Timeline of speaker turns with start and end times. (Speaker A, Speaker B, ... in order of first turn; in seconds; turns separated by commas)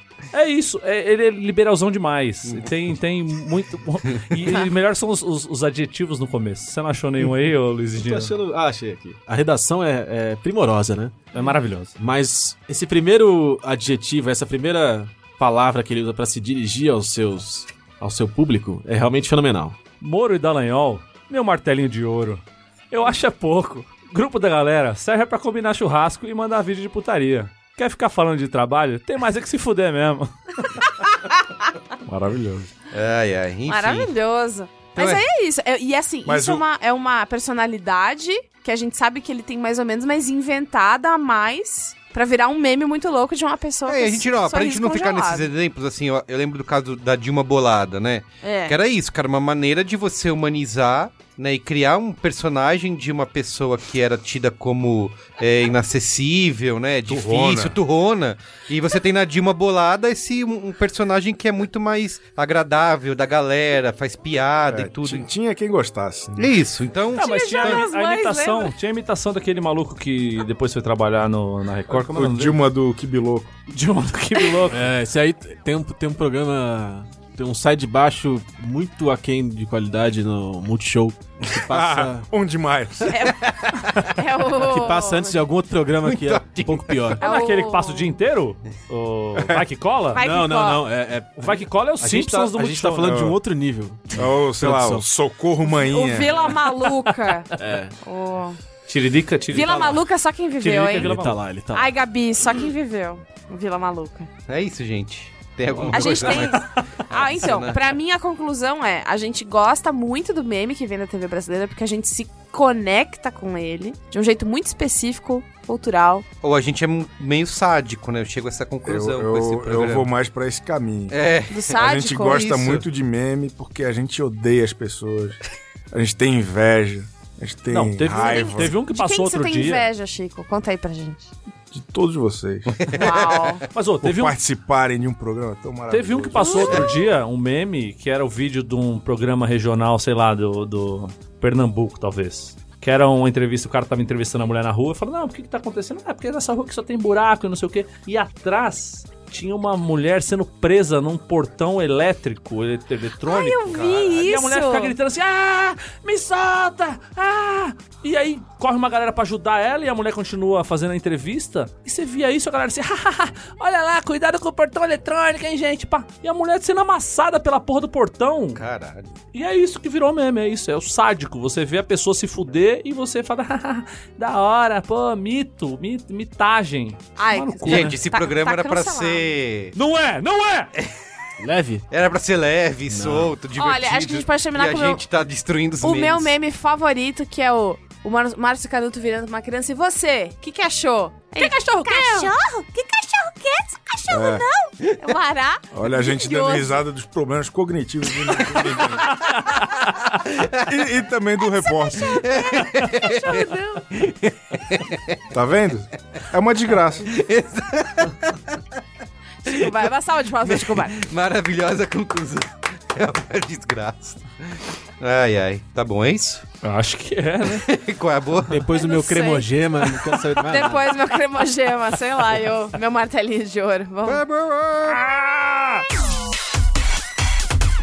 Speaker A: 0.3-8.3, Speaker B: 8.0-11.2, Speaker A: 11.3-12.0, Speaker B: 12.0-19.8, Speaker A: 20.0-30.7, Speaker C: 32.0-32.7, Speaker D: 32.9-34.1, Speaker E: 33.7-45.5, Speaker D: 35.0-35.2, Speaker C: 36.3-36.6, Speaker D: 43.9-65.3, Speaker E: 48.4-48.8, Speaker C: 57.1-57.8, Speaker C: 64.7-66.6, Speaker D: 66.4-67.8, Speaker E: 67.2-68.7, Speaker A: 67.2-72.6, Speaker C: 71.9-73.6, Speaker A: 73.7-74.9, Speaker B: 74.7-82.3, Speaker C: 81.7-83.5, Speaker E: 83.1-85.4, Speaker B: 84.5-87.2, Speaker D: 86.0-87.2, Speaker E: 87.2-88.1, Speaker A: 87.2-90.2, Speaker C: 89.4-89.6, Speaker E: 90.1-90.9, Speaker B: 90.2-95.1, Speaker A: 91.4-93.2, Speaker C: 93.0-93.4, Speaker C: 94.2-96.3, Speaker E: 95.8-97.5, Speaker B: 97.6-98.0, Speaker E: 98.0-98.6, Speaker A: 98.9-100.0, Speaker E: 99.5-101.1, Speaker A: 100.6-101.4, Speaker B: 100.9-101.9, Speaker E: 101.7-104.3, Speaker D: 104.5-107.9, Speaker B: 105.7-106.4, Speaker E: 105.9-116.2, Speaker D: 116.4-120.1, Speaker C: 118.8-121.2, Speaker D: 121.1-122.8, Speaker E: 121.5-122.5, Speaker C: 121.7-125.4, Speaker C: 125.9-128.8, Speaker A: 127.7-129.9, Speaker E: 128.2-131.3, Speaker C: 131.7-132.8, Speaker D: 132.7-133.6, Speaker E: 132.9-133.6, Speaker A: 133.7-134.4, Speaker C: 134.0-136.9, Speaker A: 135.9-168.6, Speaker E: 136.4-137.1, Speaker E: 153.2-154.9, Speaker D: 168.5-169.2, Speaker A: 169.3-178.0, Speaker E: 177.2-179.3, Speaker D: 177.7-179.8, Speaker A: 179.7-180.9, Speaker B: 181.4-181.9, Speaker D: 181.9-186.3, Speaker B: 182.9-183.3, Speaker E: 183.6-185.0, Speaker E: 185.8-196.8, Speaker A: 191.4-192.3, Speaker C: 194.1-194.5, Speaker C: 195.7-199.1, Speaker D: 198.5-199.0, Speaker D: 200.3-200.6, Speaker C: 200.6-202.3, Speaker D: 202.1-205.2, Speaker E: 202.2-203.9, Speaker C: 205.3-207.1, Speaker D: 207.0-208.6, Speaker E: 209.4-211.0, Speaker D: 210.4-216.5, Speaker A: 216.6-217.7, Speaker D: 217.5-218.7, Speaker B: 218.5-220.9, Speaker E: 218.7-224.2, Speaker D: 224.1-225.0, Speaker A: 224.9-225.8